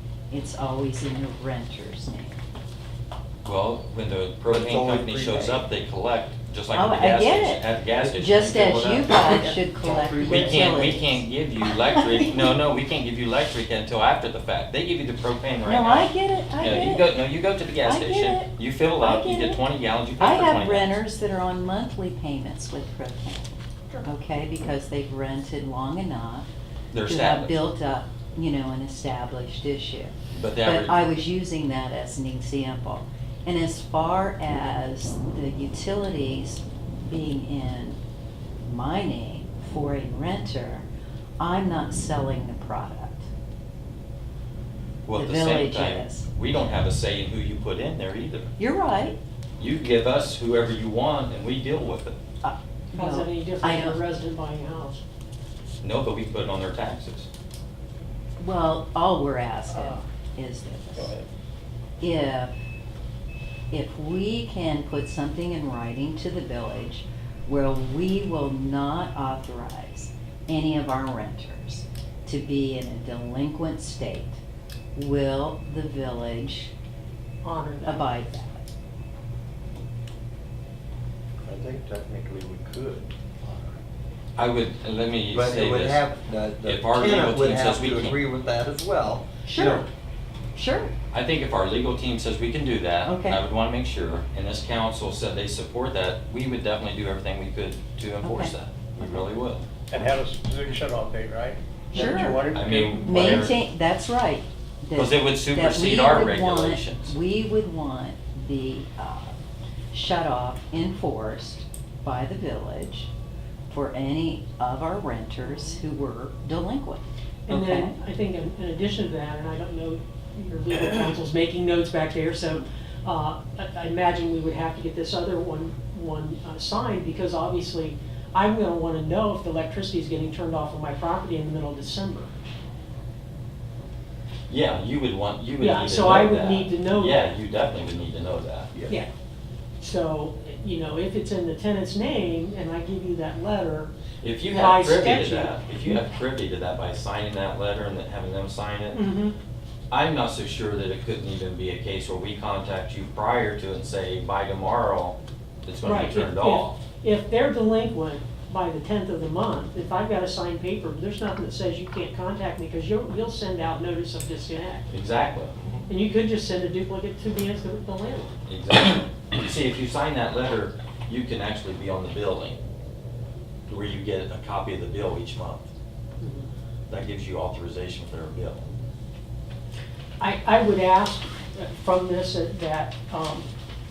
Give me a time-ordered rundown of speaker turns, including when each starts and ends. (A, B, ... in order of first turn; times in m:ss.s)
0:00.3-0:02.4 A
0:03.4-0:09.2 B
0:04.4-0:05.6 C
0:06.7-0:12.6 A
0:08.6-0:10.8 C
0:10.3-0:16.1 B
0:15.6-0:17.1 A
0:16.6-0:21.0 B
0:17.8-0:19.6 A
0:20.2-0:26.5 A
0:26.9-0:27.6 B
0:27.0-0:30.1 A
0:30.3-0:31.1 B
0:30.6-0:38.0 A
0:38.6-0:40.9 A
0:41.4-0:43.3 A
0:45.0-0:48.5 B
0:45.1-0:46.3 A
0:48.6-0:49.2 A
0:49.6-0:52.2 B
0:52.4-0:54.0 A
0:52.9-0:55.0 D
0:55.8-0:57.3 B
0:58.4-1:01.1 A
0:59.7-1:00.0 E
1:01.0-1:01.2 E
1:02.0-1:02.5 A
1:03.7-1:14.4 A
1:14.9-1:16.7 A
1:17.4-1:18.0 D
1:17.8-1:18.6 A
1:21.4-1:23.8 C
1:24.4-1:26.1 B
1:25.3-1:29.9 C
1:26.6-1:28.2 B
1:29.4-1:29.9 A
1:30.5-1:30.9 A
1:31.1-1:39.7 B
1:33.0-1:33.4 A
1:38.2-1:38.5 A
1:39.9-1:43.4 E
1:41.9-1:49.4 A
1:42.4-1:43.5 B
1:44.9-1:47.1 B
1:49.9-1:53.1 A
1:53.7-1:57.9 A
1:55.5-1:55.8 D
1:57.5-2:12.3 D
2:14.5-2:18.7 B
2:15.6-2:17.3 D
2:19.8-2:23.9 D
2:24.2-2:29.0 B
2:24.5-2:26.0 D
2:28.9-2:29.3 D
2:29.9-2:36.8 B
2:35.8-2:44.9 D
2:44.9-2:45.5 B
2:45.9-2:48.3 D
2:48.5-2:52.6 B
2:53.7-2:55.7 B
2:56.2-2:56.5 D
2:56.9-2:58.7 B
3:00.2-3:03.5 D